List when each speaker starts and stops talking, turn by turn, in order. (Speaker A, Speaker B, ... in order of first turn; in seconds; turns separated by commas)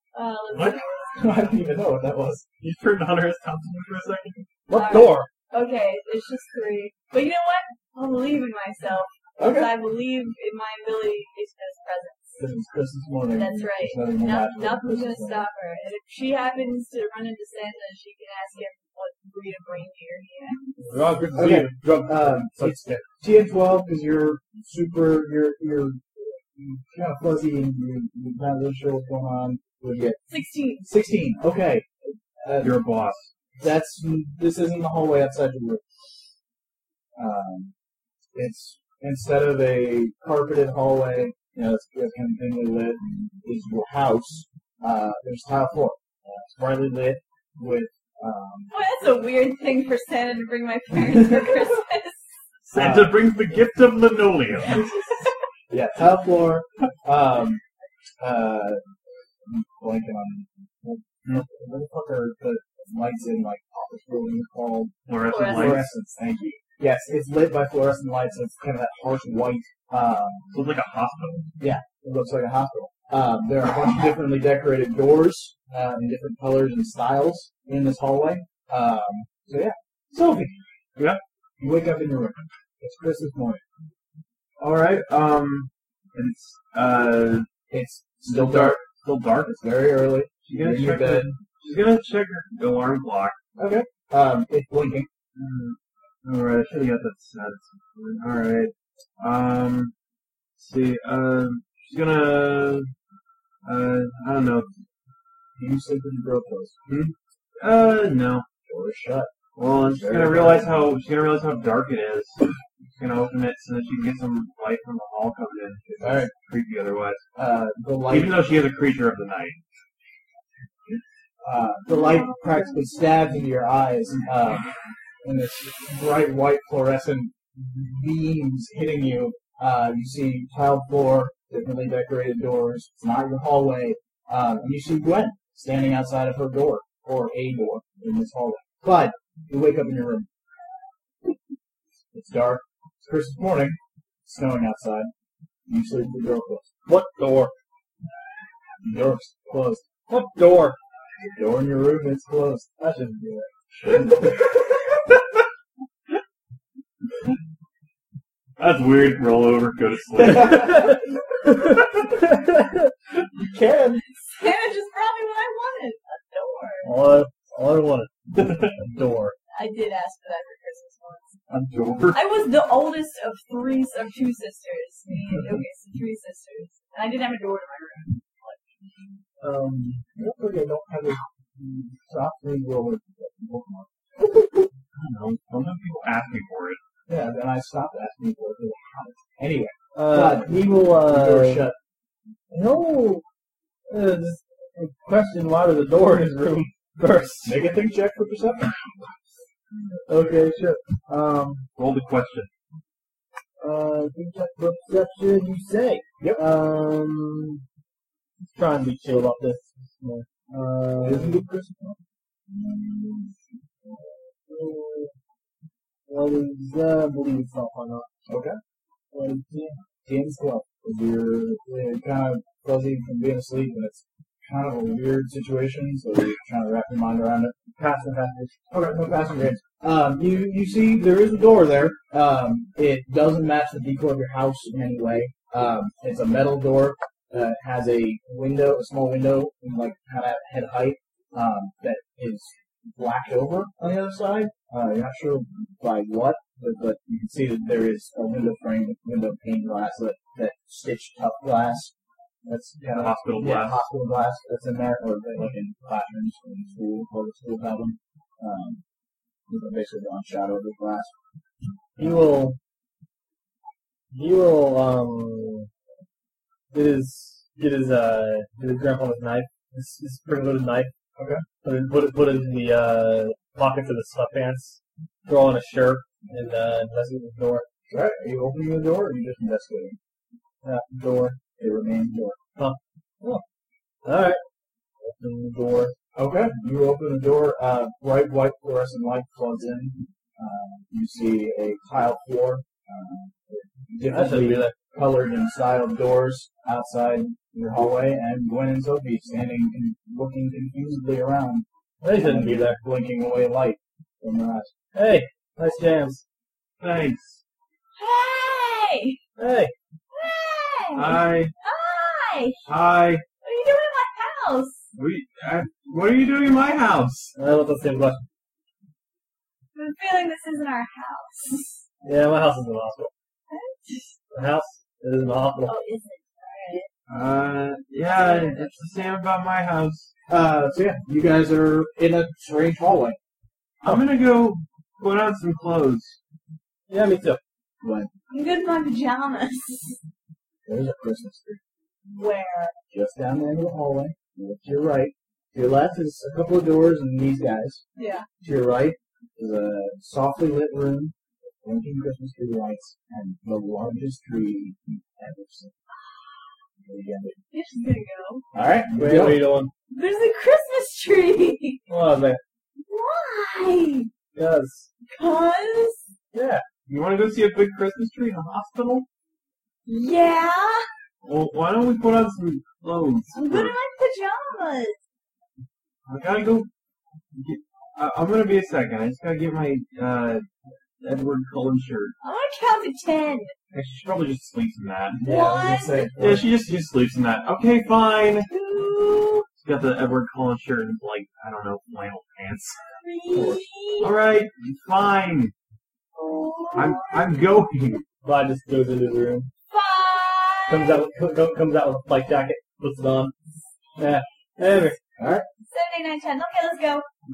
Speaker A: 0.1-1.5, Speaker B: 0.5-0.8, Speaker C: 1.1-2.4, Speaker B: 2.6-4.5, Speaker D: 4.7-5.3, Speaker A: 4.7-12.4, Speaker C: 9.4-9.7, Speaker C: 12.4-15.5, Speaker A: 13.3-20.7, Speaker D: 20.8-23.0, Speaker C: 21.3-30.2, Speaker A: 30.3-30.9, Speaker C: 30.8-32.9, Speaker B: 32.6-33.3, Speaker C: 33.6-35.8, Speaker C: 37.1-37.7, Speaker C: 38.3-48.7, Speaker A: 48.7-52.2, Speaker B: 52.7-54.9, Speaker C: 52.7-53.2, Speaker A: 54.8-55.2, Speaker C: 55.7-57.6, Speaker C: 58.2-58.8, Speaker C: 59.5-70.5, Speaker B: 65.0-65.9, Speaker A: 65.2-65.9, Speaker B: 70.5-71.5, Speaker C: 71.6-80.5, Speaker C: 81.6-83.6, Speaker B: 84.6-87.5, Speaker C: 87.7-88.8, Speaker B: 88.2-89.5, Speaker C: 89.4-91.3, Speaker B: 90.5-93.4, Speaker C: 93.6-95.1, Speaker B: 95.3-99.9, Speaker B: 100.6-102.9, Speaker B: 103.6-104.7, Speaker C: 105.5-106.8, Speaker B: 106.9-108.4, Speaker C: 108.7-110.8, Speaker B: 109.5-112.5, Speaker B: 113.0-117.2, Speaker C: 116.0-116.3, Speaker C: 117.3-118.4, Speaker B: 118.1-119.6, Speaker C: 121.4-124.7, Speaker A: 121.9-122.7, Speaker C: 125.2-140.3, Speaker C: 142.1-145.1, Speaker C: 145.7-146.7, Speaker D: 146.8-147.5, Speaker C: 148.8-149.8, Speaker D: 150.1-150.8, Speaker C: 151.3-152.8, Speaker D: 152.8-153.4, Speaker C: 153.8-154.3, Speaker B: 158.6-160.9, Speaker C: 160.4-160.8, Speaker D: 161.4-162.9, Speaker C: 163.4-164.0, Speaker A: 164.3-166.9, Speaker D: 166.8-169.3, Speaker A: 169.5-171.3, Speaker B: 171.5-172.2, Speaker A: 172.1-178.6, Speaker D: 179.4-180.0, Speaker C: 180.1-183.9, Speaker B: 184.9-186.8, Speaker C: 187.1-191.8, Speaker D: 189.9-191.7, Speaker D: 192.5-193.2, Speaker D: 193.9-197.6, Speaker C: 197.4-198.8, Speaker C: 199.7-200.3, Speaker D: 200.1-201.6, Speaker B: 201.8-202.5, Speaker D: 203.6-207.6, Speaker D: 208.5-211.4, Speaker C: 211.0-212.0, Speaker D: 212.5-213.3, Speaker D: 214.0-215.1, Speaker D: 216.1-218.1, Speaker C: 218.3-218.6, Speaker D: 219.1-219.8, Speaker C: 220.1-227.5, Speaker D: 227.8-228.5, Speaker C: 228.7-251.9, Speaker C: 252.4-258.8, Speaker B: 252.9-253.8, Speaker C: 259.5-261.1, Speaker D: 262.0-262.6, Speaker D: 264.1-265.7, Speaker D: 266.7-270.9, Speaker C: 271.1-271.4, Speaker D: 271.6-277.6, Speaker C: 277.9-280.0, Speaker D: 280.6-281.4, Speaker C: 281.6-282.4, Speaker D: 282.6-283.4, Speaker D: 284.0-284.4, Speaker D: 285.0-285.9, Speaker C: 286.1-304.7, Speaker D: 294.1-294.7, Speaker D: 302.0-302.8, Speaker D: 304.9-306.2, Speaker B: 306.8-307.4, Speaker A: 307.9-309.2, Speaker D: 309.4-309.7, Speaker A: 310.1-312.6, Speaker B: 310.9-311.5, Speaker B: 312.6-313.2, Speaker A: 313.4-314.8, Speaker B: 314.9-317.3, Speaker D: 317.4-318.2, Speaker A: 319.7-321.8, Speaker D: 322.0-323.1, Speaker A: 323.5-324.2, Speaker D: 324.3-325.8, Speaker A: 325.6-326.9, Speaker B: 327.1-330.1, Speaker A: 328.1-329.0, Speaker C: 330.3-333.2, Speaker B: 333.8-336.2, Speaker D: 336.9-337.4, Speaker C: 337.8-338.1, Speaker A: 338.3-340.0, Speaker C: 340.6-341.6, Speaker A: 342.1-342.8, Speaker C: 342.9-347.8, Speaker A: 347.9-348.3, Speaker C: 348.4-355.7, Speaker A: 355.9-356.5, Speaker C: 356.8-357.4, Speaker A: 357.5-358.4, Speaker C: 358.5-359.6, Speaker D: 358.9-359.7, Speaker A: 359.9-361.8, Speaker D: 361.9-362.4, Speaker A: 362.8-364.1, Speaker D: 364.3-364.9, Speaker A: 365.1-366.1, Speaker D: 366.3-366.6, Speaker B: 366.9-369.1, Speaker A: 369.9-370.9, Speaker B: 371.2-373.7, Speaker A: 373.3-375.0, Speaker B: 376.1-376.7, Speaker B: 377.3-380.5, Speaker B: 381.0-382.1, Speaker A: 382.2-383.5, Speaker B: 383.7-385.2, Speaker C: 385.2-386.5, Speaker D: 385.2-385.7, Speaker A: 385.2-386.1, Speaker B: 386.2-388.5, Speaker A: 388.5-389.5, Speaker B: 389.6-392.8, Speaker A: 393.0-394.1, Speaker C: 393.3-393.6, Speaker B: 394.0-395.5, Speaker A: 396.1-397.4, Speaker B: 396.7-398.0, Speaker D: 398.2-399.5, Speaker A: 399.7-401.0, Speaker D: 400.7-403.3, Speaker D: 404.0-405.0, Speaker C: 405.2-405.4, Speaker A: 405.7-407.1